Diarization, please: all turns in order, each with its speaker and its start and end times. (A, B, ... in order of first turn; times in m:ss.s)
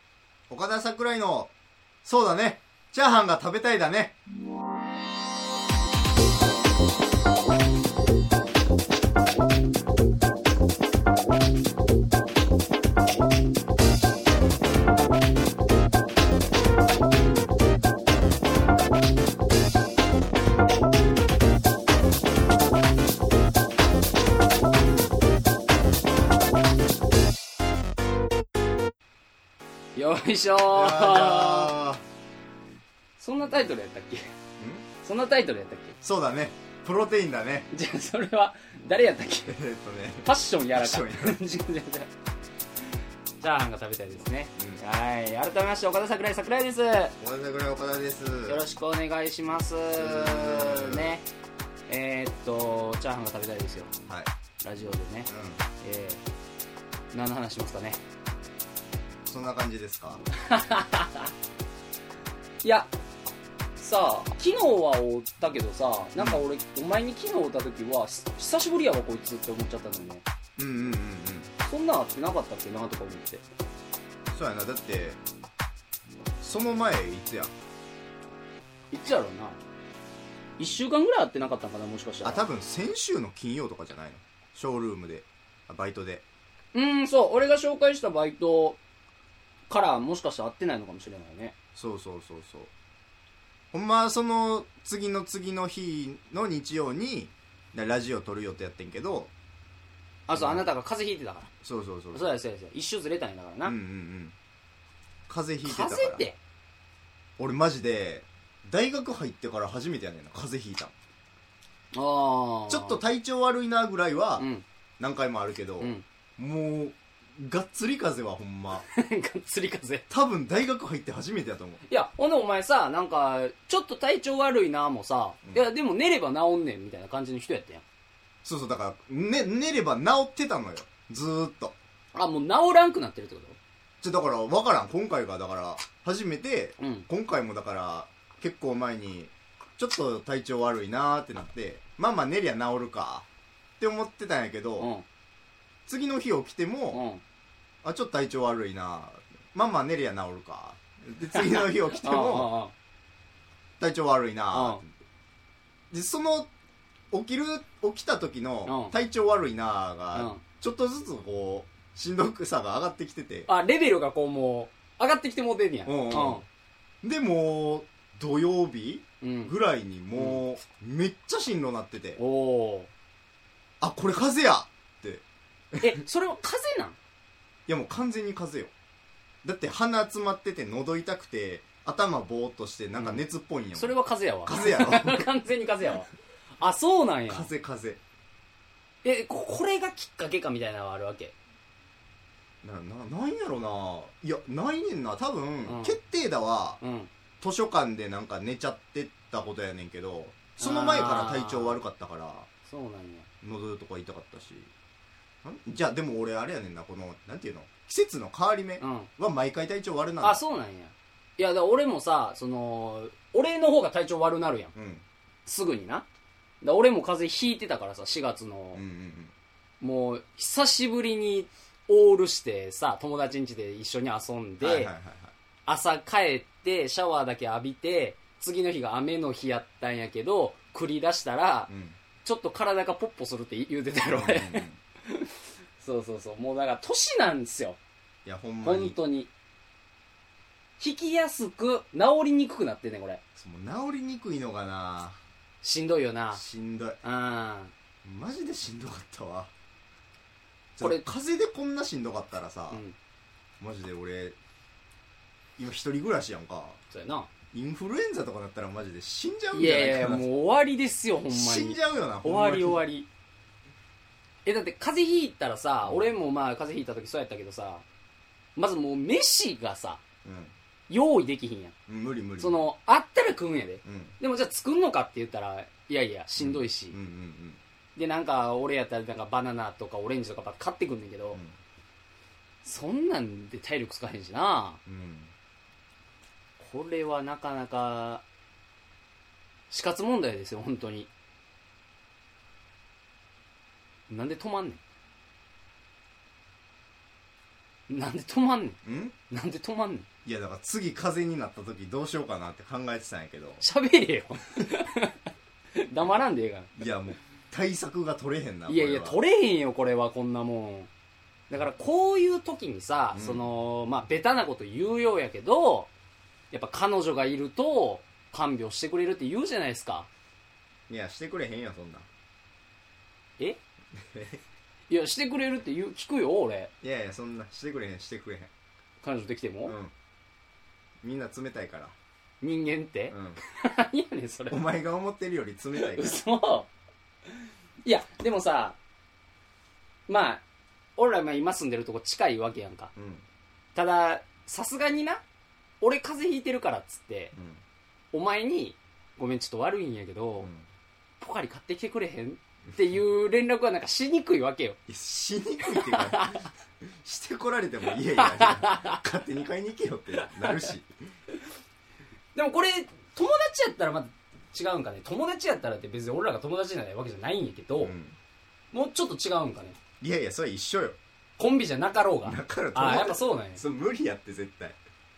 0:00.5-0:01.5 A
0:02.0-0:04.1 A
0:30.0-0:31.7 B
0:30.7-0:32.0 A
0:33.2-0:34.3 B
0:34.6-0:34.8 A
0:35.0-0:36.0 B
0:36.0-0:37.7 A
0:37.7-0:39.5 B
0:39.4-0:41.4 A
0:40.2-0:42.1 B
0:43.4-0:47.1 B
0:44.6-0:44.8 A
0:47.2-0:48.6 A
0:48.5-0:51.3 B
0:50.0-0:51.2 A
0:51.9-0:53.9 B
0:54.6-0:55.3 B
0:55.3-0:55.6 A
0:55.8-0:56.2 B
0:57.1-0:58.0 B
0:59.3-1:00.2 A
1:00.4-1:01.3 B
1:02.6-1:02.9 B
1:03.8-1:10.2 B
1:06.2-1:06.4 A
1:10.6-1:11.5 A
1:11.6-1:13.4 B
1:14.3-1:15.2 A
1:16.4-1:17.5 A
1:18.9-1:19.6 B
1:20.6-1:22.4 B
1:22.2-1:26.2 A
1:26.7-1:28.8 B
1:29.7-1:31.5 B
1:31.8-1:32.7 A
1:33.7-1:39.3 A
1:40.3-1:41.5 B
1:40.3-1:40.7 A
1:41.6-1:42.3 A
1:42.1-1:43.8 B
1:43.6-1:44.3 A
1:45.3-1:46.3 A
1:45.6-1:46.4 B
1:47.4-1:50.9 A
1:51.9-1:53.0 B
1:52.7-1:54.4 A
1:54.4-1:54.6 B
1:55.0-1:58.8 A
1:58.7-2:00.0 B
2:00.1-2:01.8 A
2:01.9-2:07.8 B
2:08.4-2:11.8 A
2:12.1-2:13.6 B
2:14.0-2:23.2 A
2:16.8-2:17.1 B
2:23.8-2:24.9 A
2:24.8-2:25.0 B
2:25.9-2:27.0 A
2:26.9-2:27.2 B
2:27.8-2:32.5 A
2:31.3-2:32.7 B
2:33.8-2:34.9 A
2:34.5-2:34.8 B
2:35.9-2:36.5 A
2:37.1-2:43.5 A
2:38.6-2:38.9 B
2:40.1-2:40.4 B
2:43.5-2:46.4 B
2:45.8-2:46.4 A
2:47.0-2:52.2 A
2:49.2-2:49.5 B
2:52.2-2:52.9 B
2:53.8-2:56.0 A
2:55.8-2:57.0 B
2:57.7-2:58.7 A
2:59.4-3:03.9 A
3:03.0-3:03.2 B
3:03.7-3:07.5 B
3:04.4-3:05.3 A
3:07.3-3:08.0 A
3:09.0-3:11.3 B
3:12.6-3:16.8 A
3:15.6-3:16.0 B
3:16.8-3:17.1 B
3:17.4-3:22.5 A
3:20.6-3:21.8 B
3:22.7-3:23.3 B
3:23.4-3:24.7 A
3:25.4-3:30.4 A
3:28.8-3:29.1 B
3:30.2-3:34.7 B
3:34.7-3:35.0 A
3:35.4-3:36.0 B
3:36.6-3:38.8 B
3:38.7-3:39.3 A
3:39.8-3:44.9 B
3:44.6-3:45.3 A
3:45.7-3:51.7 B
3:51.7-3:52.0 A
3:52.2-3:57.8 B
3:54.0-3:54.8 A
3:58.2-3:59.0 A
3:58.6-3:59.3 B
4:00.8-4:03.2 B
4:03.4-4:05.2 A
4:05.6-4:06.4 B
4:06.3-4:07.0 A
4:07.0-4:07.7 B
4:08.0-4:09.5 A
4:10.8-4:12.8 A
4:13.6-4:14.4 A
4:15.6-4:16.8 A
4:16.9-4:17.3 B
4:17.5-4:20.3 A
4:19.5-4:23.1 B
4:21.3-4:22.8 A
4:24.4-4:27.8 B
4:25.8-4:26.1 A
4:28.6-4:30.0 B
4:30.2-4:30.5 A
4:30.9-4:31.7 B
4:31.9-4:32.7 A
4:32.4-4:37.0 B
4:33.8-4:34.2 A
4:36.4-4:37.6 A
4:38.0-4:41.4 B
4:42.6-4:44.8 B
4:44.8-4:45.3 A
4:46.6-4:48.2 B
4:49.7-4:51.1 B
4:54.1-4:54.8 B
4:57.9-4:58.8 B
4:58.8-4:59.1 A
4:59.3-5:00.1 B
5:00.2-5:03.6 A
5:03.6-5:05.2 B
5:05.8-5:06.7 B
5:06.8-5:09.2 A
5:08.7-5:10.9 B
5:11.5-5:15.9 B
5:13.1-5:13.5 A
5:16.5-5:20.1 B
5:20.9-5:22.1 A
5:24.1-5:24.4 A
5:24.9-5:26.7 B
5:26.8-5:28.5 A
5:29.0-5:29.7 B
5:29.6-5:29.9 A
5:31.0-5:31.9 A
5:32.4-5:34.6 B
5:33.1-5:33.4 A
5:34.5-5:36.2 A
5:35.8-5:36.7 B
5:37.8-5:38.8 B
5:40.1-5:40.4 B
5:41.0-5:42.9 B
5:43.0-5:43.2 A
5:43.7-5:45.2 B
5:45.8-5:47.3 B
5:47.3-5:47.6 A
5:48.1-5:50.5 B
5:50.4-5:50.6 A
5:51.2-5:54.8 B
5:54.9-6:00.9 A
5:55.7-5:56.5 B
5:58.1-5:59.0 B
6:00.2-6:00.6 B
6:02.3-6:07.9 B
6:07.8-6:08.2 A
6:08.7-6:09.8 B
6:10.0-6:11.0 A
6:11.4-6:13.6 B
6:12.2-6:14.8 A